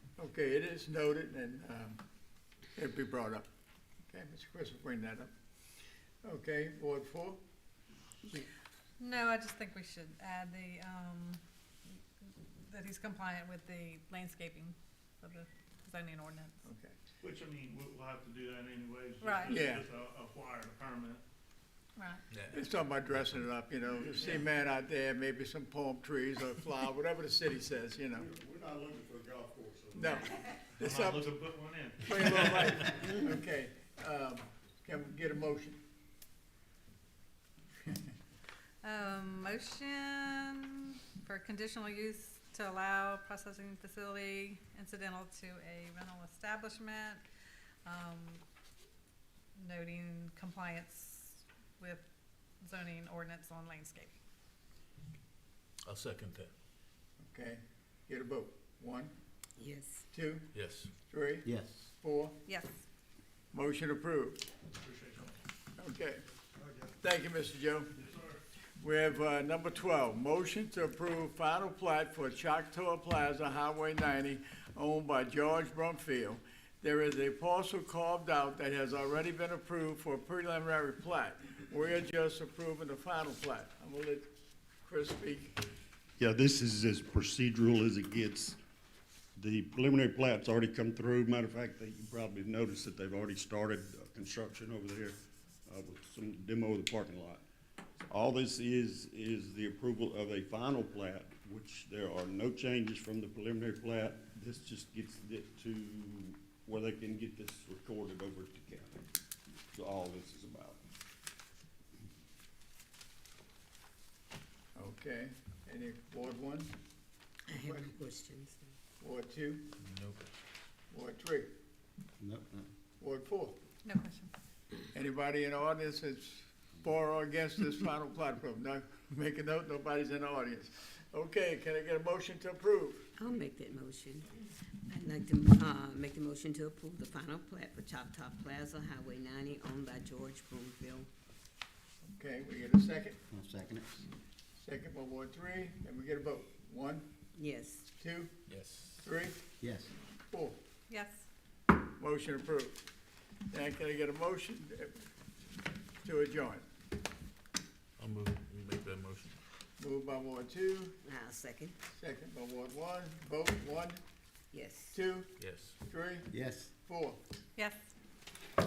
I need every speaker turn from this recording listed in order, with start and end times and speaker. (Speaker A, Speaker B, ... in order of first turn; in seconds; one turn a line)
Speaker A: 0.2-2.0
Speaker A: 2.8-3.5
Speaker A: 4.1-5.3
Speaker A: 6.2-7.4
Speaker B: 9.0-11.4
Speaker B: 12.6-16.6
Speaker A: 16.6-16.9
Speaker C: 17.2-21.2
Speaker B: 19.2-19.6
Speaker A: 19.5-19.9
Speaker B: 22.0-22.2
Speaker D: 22.3-22.6
Speaker A: 22.5-28.3
Speaker E: 28.1-30.7
Speaker A: 30.0-31.4
Speaker C: 30.8-33.0
Speaker A: 32.0-35.8
Speaker B: 38.8-47.2
Speaker B: 47.9-48.4
Speaker B: 49.6-52.1
Speaker B: 52.6-54.1
Speaker D: 55.8-56.5
Speaker A: 57.2-59.1
Speaker F: 59.6-60.0
Speaker A: 60.1-60.5
Speaker D: 60.5-60.9
Speaker A: 61.1-62.4
Speaker G: 61.4-61.8
Speaker B: 62.5-62.7
Speaker A: 63.5-64.5
Speaker C: 64.8-65.4
Speaker A: 65.8-66.2
Speaker A: 67.0-67.9
Speaker C: 68.0-68.4
Speaker A: 68.8-84.3
Speaker A: 84.8-85.6
Speaker E: 86.2-88.6
Speaker E: 89.4-97.4
Speaker E: 98.1-109.0
Speaker E: 109.7-110.8
Speaker A: 114.8-116.7
Speaker F: 117.5-118.7
Speaker A: 117.5-117.9
Speaker A: 119.0-119.7
Speaker D: 119.8-120.3
Speaker A: 120.9-121.5
Speaker G: 122.2-122.7
Speaker A: 123.0-123.6
Speaker B: 123.8-124.3
Speaker A: 124.9-133.1
Speaker F: 133.2-134.3
Speaker F: 134.9-141.1
Speaker A: 142.1-143.2
Speaker G: 143.3-144.1
Speaker A: 144.6-147.1
Speaker F: 147.4-147.8
Speaker A: 148.0-148.3
Speaker D: 148.5-149.0
Speaker A: 149.0-149.4
Speaker G: 149.6-149.9
Speaker A: 150.3-150.6
Speaker B: 150.9-151.3
Speaker A: 152.0-152.8
Speaker A: 153.5-154.9
Speaker A: 156.0-156.7
Speaker D: 158.0-159.4
Speaker A: 159.8-160.9
Speaker F: 161.0-161.8
Speaker A: 161.9-164.0
Speaker F: 164.5-165.0
Speaker A: 164.9-165.3
Speaker D: 165.4-165.8
Speaker A: 165.8-167.2
Speaker G: 166.3-166.7